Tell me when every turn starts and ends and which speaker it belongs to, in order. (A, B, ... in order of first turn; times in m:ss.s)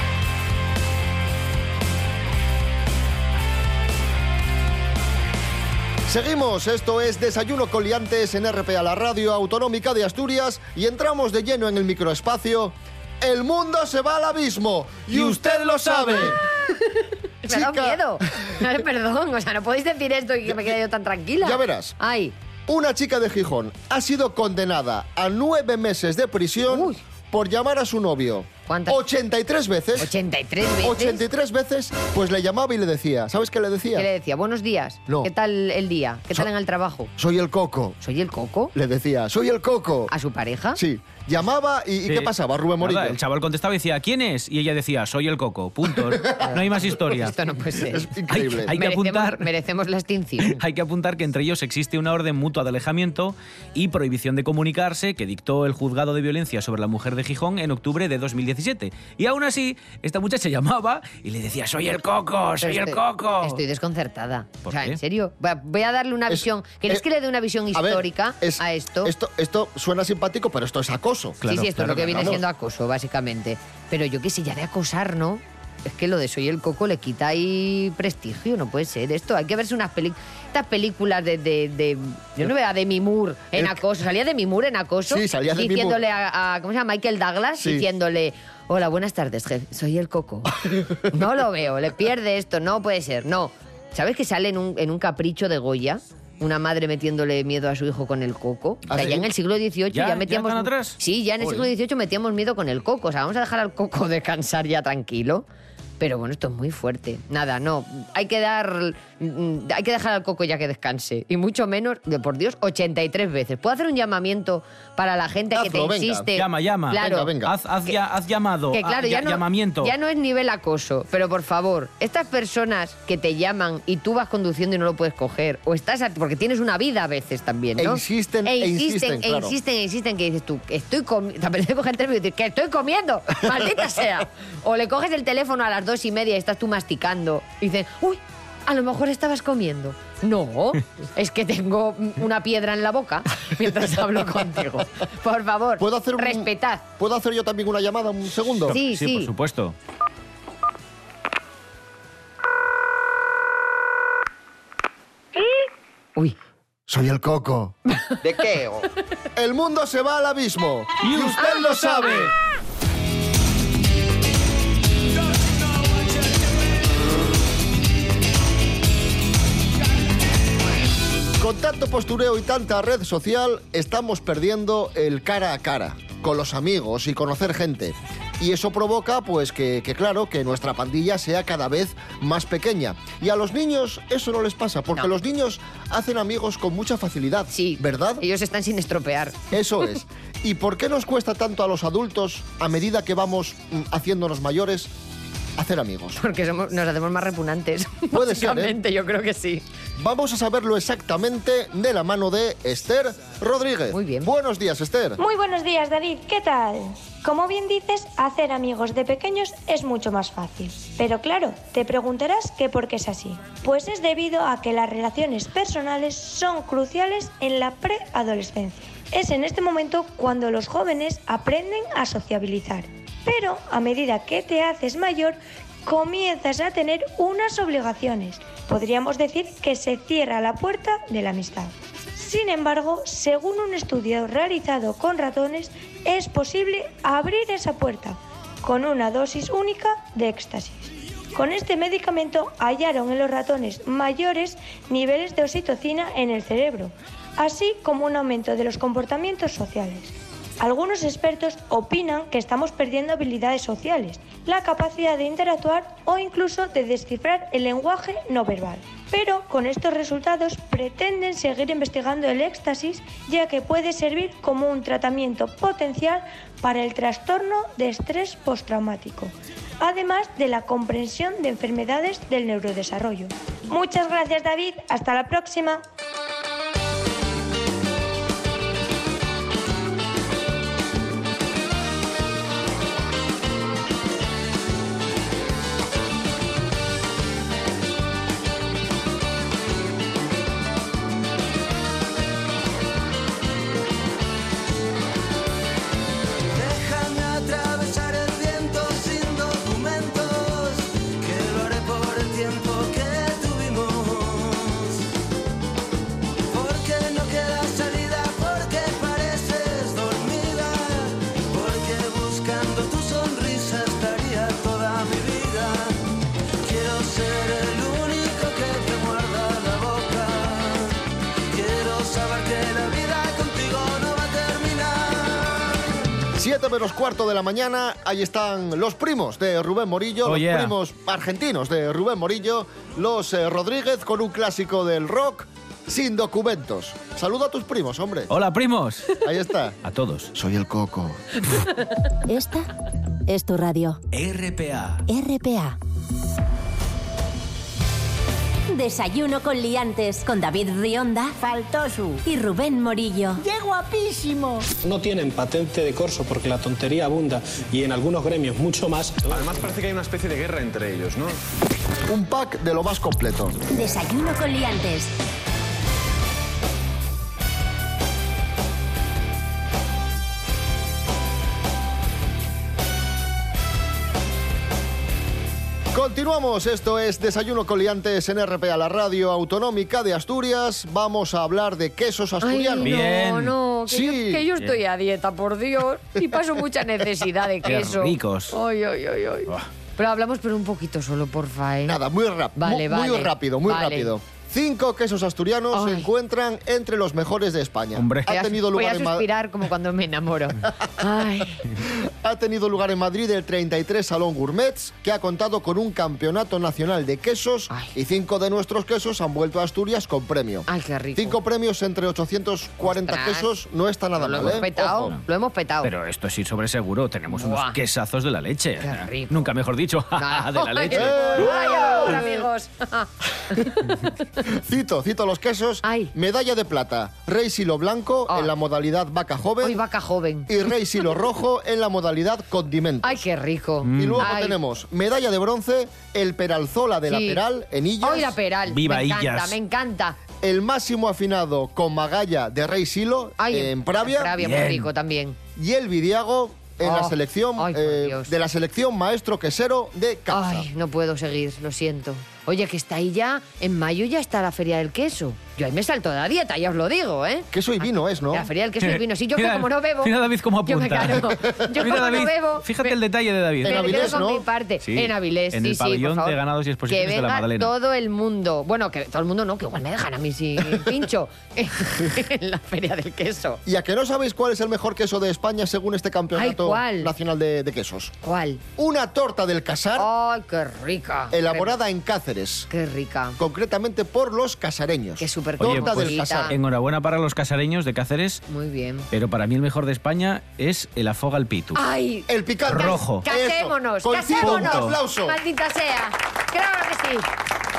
0:06.1-0:16.4 A
0:15.1-0:16.4 B
0:17.4-0:22.4 C
0:17.5-0:18.0 A
0:20.5-0:20.7 A
0:21.4-0:22.0 A
0:22.7-0:30.1 A
0:26.7-0:27.0 C
0:28.7-0:29.0 C
0:30.0-0:31.2 C
0:30.8-0:34.1 A
0:34.0-0:37.1 C
0:37.2-0:38.0 A
0:38.0-0:38.7 C
0:38.8-0:40.1 A
0:40.1-0:40.8 C
0:40.8-0:43.2 A
0:42.1-0:47.3 B
0:46.4-0:48.1 C
0:47.8-0:48.7 A
0:48.3-0:49.5 B
0:48.7-0:50.6 C
0:50.4-1:03.6 B
1:02.6-1:09.1 C
1:04.7-1:05.0 B
1:06.3-1:07.0 A
1:07.7-1:11.4 A
1:11.4-1:12.4 B
1:11.4-1:30.5 C
1:12.2-1:12.4 A
1:23.6-1:23.8 A
1:25.1-1:26.0 A
1:27.6-1:27.9 A
1:30.7-1:31.1 A
1:31.1-1:45.5 C
1:38.9-1:39.3 A
1:39.9-1:41.7 B
1:46.0-1:57.3 C
1:55.5-1:56.3 A
1:56.4-1:59.9 B
1:56.9-1:57.5 A
1:58.7-2:26.8 C
2:07.8-2:09.6 A
2:25.8-2:28.8 A
2:28.6-2:29.8 B
2:28.7-2:29.3 C
2:36.9-2:42.3 A
2:37.9-2:38.2 C
2:41.0-2:42.3 B
2:41.4-2:42.1 C
2:51.4-3:08.2 A
3:07.5-3:09.4 C
3:09.5-3:14.9 A
3:15.6-3:16.2 A
3:16.2-3:19.6 C
3:18.1-3:18.8 A
3:20.0-3:25.2 A
3:23.9-3:24.3 C
3:25.2-4:35.8 D
4:56.5-5:05.0 E
5:06.5-5:16.0 E
5:16.6-5:21.0 E
5:21.5-5:25.7 E
5:26.4-5:38.3 A
5:30.2-5:30.7 B
5:38.3-5:39.2 B
5:39.2-5:39.8 A
5:39.8-5:40.3 B
5:40.3-5:41.2 A
5:42.3-5:42.7 F
5:43.3-5:44.0 F
5:44.1-5:45.0 B
5:45.1-5:45.8 F
5:48.7-5:51.4 F
5:51.4-5:52.2 G
5:52.2-5:53.4 F
5:53.4-5:54.7 G
5:54.8-5:59.4 H
5:59.3-6:01.3 I
6:02.1-6:03.6 A
6:03.7-6:05.1 F
6:15.9-6:23.1 A
6:22.4-6:32.0 C
6:22.8-6:23.6 B
6:23.9-6:24.5 A
6:27.6-6:28.6 B
6:31.8-6:39.3 A
6:32.6-6:34.1 C
6:35.7-6:36.1 C
6:38.0-6:38.3 B
6:38.3-6:41.6 C
6:41.8-6:55.1 A
6:50.7-6:51.4 C
6:52.8-6:53.5 C
6:54.2-6:55.9 C
6:54.4-6:55.2 B
6:55.8-7:01.4 B
6:57.3-6:57.8 C
6:58.8-6:59.5 C
7:00.2-7:03.9 C
7:00.9-7:02.4 A
7:04.4-7:09.8 A
7:05.8-7:06.1 C
7:09.6-7:10.5 C
7:10.5-7:13.2 A
7:13.0-7:14.6 C
7:13.8-7:14.3 B
7:14.0-7:18.4 A
7:17.1-7:17.4 C
7:18.0-7:20.2 C
7:18.7-7:19.6 B
7:20.4-7:24.3 A
7:23.4-7:25.4 C
7:24.4-7:24.9 B
7:25.6-7:30.7 A
7:26.8-7:28.3 C
7:30.3-7:37.5 C
7:37.5-7:38.5 A
7:38.3-7:40.1 C
7:38.8-7:44.2 B
7:40.7-7:43.0 C
7:43.6-7:53.6 C
7:43.6-7:44.4 A
7:44.8-7:47.7 B
7:53.7-7:58.1 A
7:56.4-7:57.1 C
7:58.2-7:58.6 C
7:58.8-8:00.1 A
8:00.0-8:01.7 C
8:01.3-8:02.7 A
8:02.7-8:03.4 C
8:03.4-8:06.6 A
8:05.2-8:06.6 C
8:05.6-8:08.4 B
8:08.5-8:09.1 C
8:09.1-8:11.8 B
8:11.7-8:17.3 C
8:12.3-8:15.4 A
8:12.7-8:13.2 B
8:14.4-8:14.9 B